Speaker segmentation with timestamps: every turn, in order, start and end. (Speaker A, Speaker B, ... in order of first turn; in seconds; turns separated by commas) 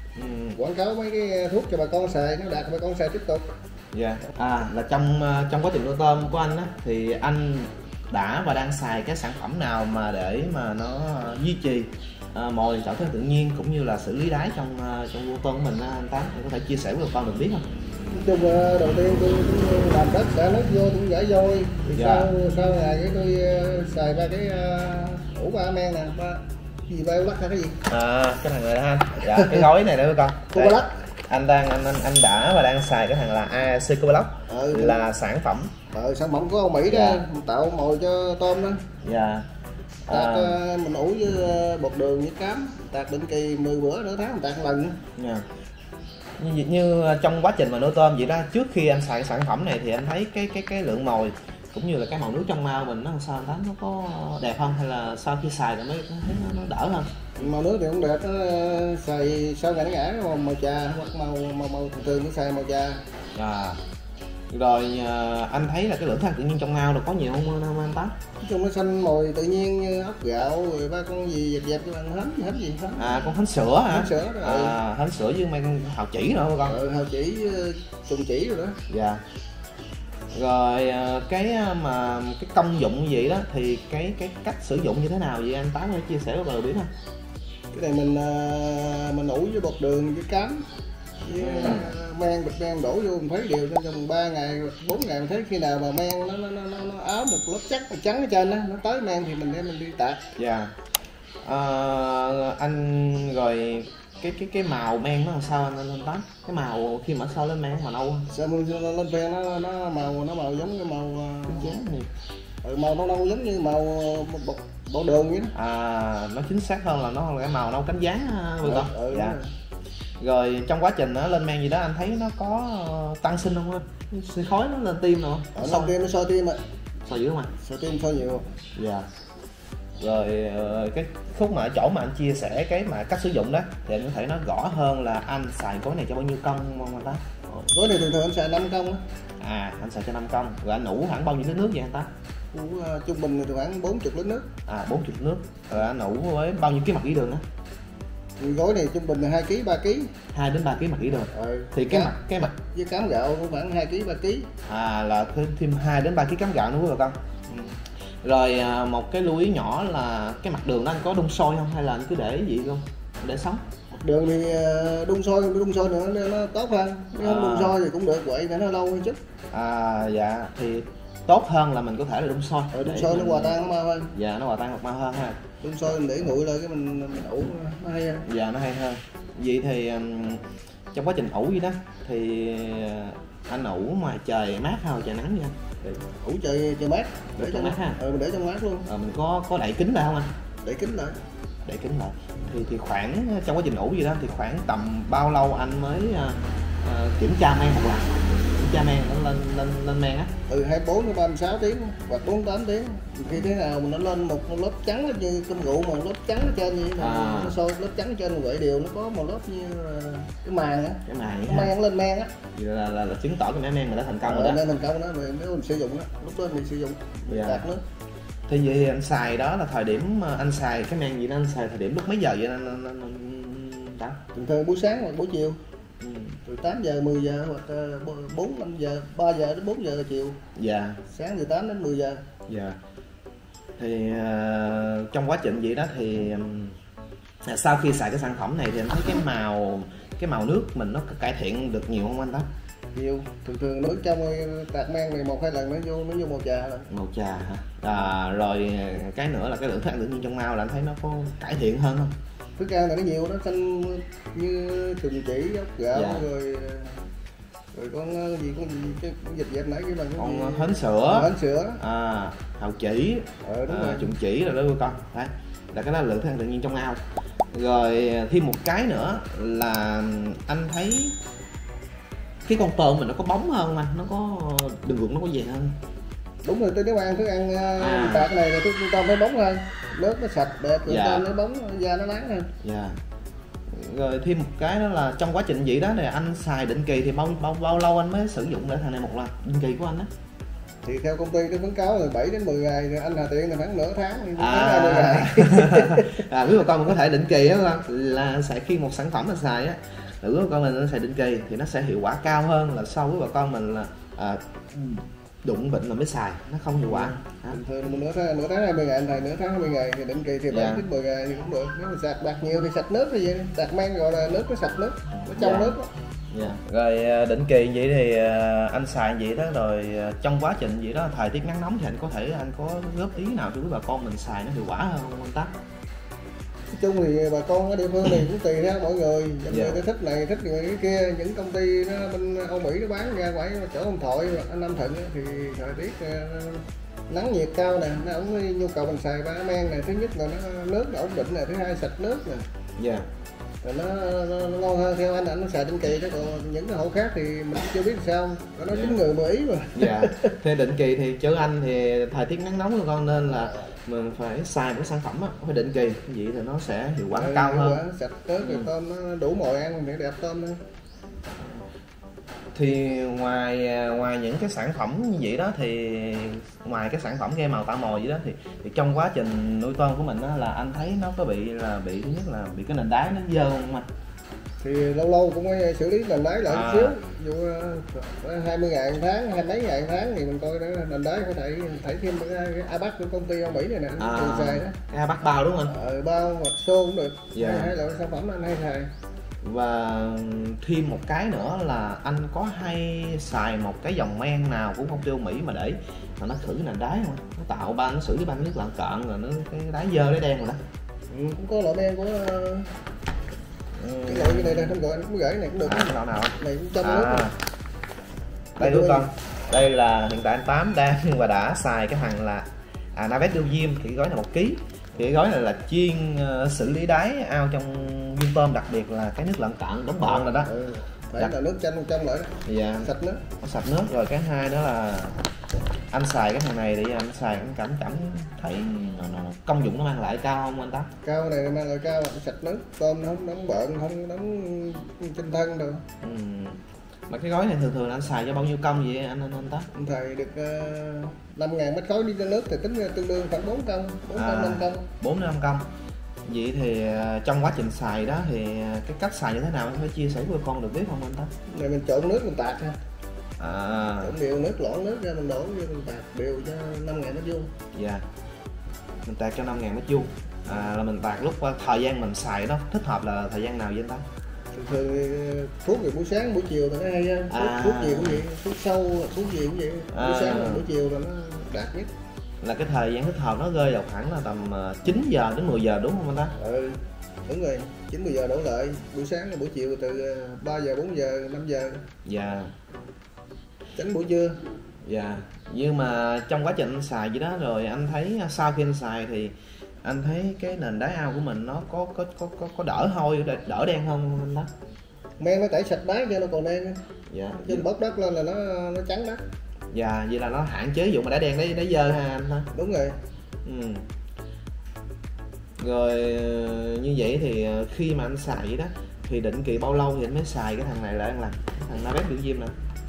Speaker A: 0.2-0.6, Speaker B: 0.5-3.5, Speaker A: 3.9-17.6, Speaker B: 18.1-27.8, Speaker A: 21.9-22.3, Speaker A: 27.9-35.7, Speaker B: 29.3-29.6, Speaker B: 30.5-31.0, Speaker B: 34.5-35.0, Speaker B: 35.9-38.8, Speaker A: 36.9-37.2, Speaker A: 39.0-39.5, Speaker A: 40.1-40.6, Speaker B: 40.1-45.0, Speaker A: 45.2-45.5, Speaker A: 46.4-57.1, Speaker B: 57.4-63.0, Speaker A: 63.4-63.8, Speaker A: 64.5-68.1, Speaker B: 68.4-73.3, Speaker A: 73.0-76.8, Speaker B: 73.9-74.8, Speaker B: 76.7-78.8, Speaker A: 78.9-79.2, Speaker A: 80.3-86.9, Speaker B: 87.7-90.7, Speaker B: 91.2-100.2, Speaker A: 91.4-91.9, Speaker A: 100.4-100.7, Speaker A: 101.4-108.3, Speaker B: 108.3-111.8, Speaker A: 111.5-112.1, Speaker B: 112.6-115.5, Speaker A: 115.5-119.4, Speaker B: 118.6-119.5, Speaker A: 120.2-126.0, Speaker B: 125.5-126.6, Speaker A: 127.0-127.5, Speaker B: 127.6-128.5, Speaker A: 128.8-129.1, Speaker A: 130.0-137.2, Speaker B: 137.5-139.0, Speaker A: 139.4-142.1, Speaker B: 142.5-144.5, Speaker A: 144.7-147.4, Speaker B: 148.4-150.1, Speaker A: 150.3-152.6, Speaker B: 151.3-154.5, Speaker A: 154.7-157.2, Speaker B: 157.5-157.8, Speaker A: 158.2-163.6, Speaker B: 164.0-169.2, Speaker A: 167.2-167.8, Speaker A: 169.5-173.6, Speaker B: 172.7-174.1, Speaker A: 174.2-175.4, Speaker B: 175.6-178.3, Speaker A: 178.2-186.0, Speaker B: 186.1-188.9, Speaker A: 187.4-188.0, Speaker A: 188.9-190.3, Speaker B: 190.6-191.2, Speaker A: 191.7-200.3, Speaker B: 200.5-212.3, Speaker A: 207.0-207.6, Speaker A: 211.1-211.8, Speaker A: 212.5-214.6, Speaker B: 214.3-217.8, Speaker A: 217.3-217.7, Speaker A: 218.5-224.2, Speaker B: 224.3-225.6, Speaker A: 226.0-226.4, Speaker B: 226.5-230.4, Speaker A: 230.6-231.0, Speaker B: 231.1-232.2, Speaker A: 232.5-232.8, Speaker A: 233.8-236.8, Speaker A: 237.4-242.5, Speaker B: 242.9-246.9, Speaker A: 246.9-252.1, Speaker B: 252.6-257.0, Speaker A: 255.9-256.2, Speaker B: 257.7-261.8, Speaker A: 260.2-271.2, Speaker B: 263.4-264.1, Speaker A: 272.4-275.8, Speaker B: 276.4-282.5, Speaker A: 277.8-278.3, Speaker A: 280.9-281.3, Speaker A: 282.6-283.0, Speaker A: 283.7-290.1, Speaker B: 290.8-296.2, Speaker A: 294.4-307.6, Speaker B: 306.9-315.9, Speaker A: 310.5-310.9, Speaker A: 315.2-315.8, Speaker A: 316.3-325.5, Speaker B: 326.7-342.5, Speaker A: 329.5-329.8, Speaker A: 342.8-343.1, Speaker B: 343.6-350.4, Speaker A: 348.7-349.0, Speaker A: 349.7-357.8, Speaker B: 357.1-360.6, Speaker A: 358.4-358.7, Speaker A: 362.6-373.9, Speaker B: 374.6-384.8, Speaker A: 376.5-377.0, Speaker A: 384.0-385.8, Speaker B: 385.7-388.9, Speaker A: 387.3-387.7, Speaker A: 389.4-400.6, Speaker B: 401.1-402.7, Speaker A: 403.8-404.8, Speaker B: 404.1-407.3, Speaker A: 405.6-407.4, Speaker A: 408.6-420.5, Speaker B: 408.6-409.1, Speaker B: 420.0-423.2, Speaker A: 422.4-422.9, Speaker A: 423.4-425.2, Speaker A: 425.9-430.9, Speaker B: 431.0-435.9, Speaker A: 436.0-439.7, Speaker B: 439.7-444.8, Speaker A: 444.1-445.7, Speaker A: 446.3-451.3, Speaker B: 451.5-452.8, Speaker A: 453.4-454.1, Speaker B: 454.0-457.5, Speaker A: 457.7-458.0, Speaker A: 459.0-464.1, Speaker B: 464.5-471.9, Speaker A: 467.3-468.2, Speaker A: 469.9-470.7, Speaker A: 472.4-476.3, Speaker B: 476.4-481.8, Speaker A: 482.1-482.5, Speaker B: 483.8-484.4, Speaker A: 484.8-494.5, Speaker B: 495.2-496.8, Speaker A: 497.1-497.6, Speaker B: 497.4-499.2, Speaker A: 499.7-502.5, Speaker B: 502.5-503.0, Speaker A: 503.4-503.9, Speaker A: 505.6-512.5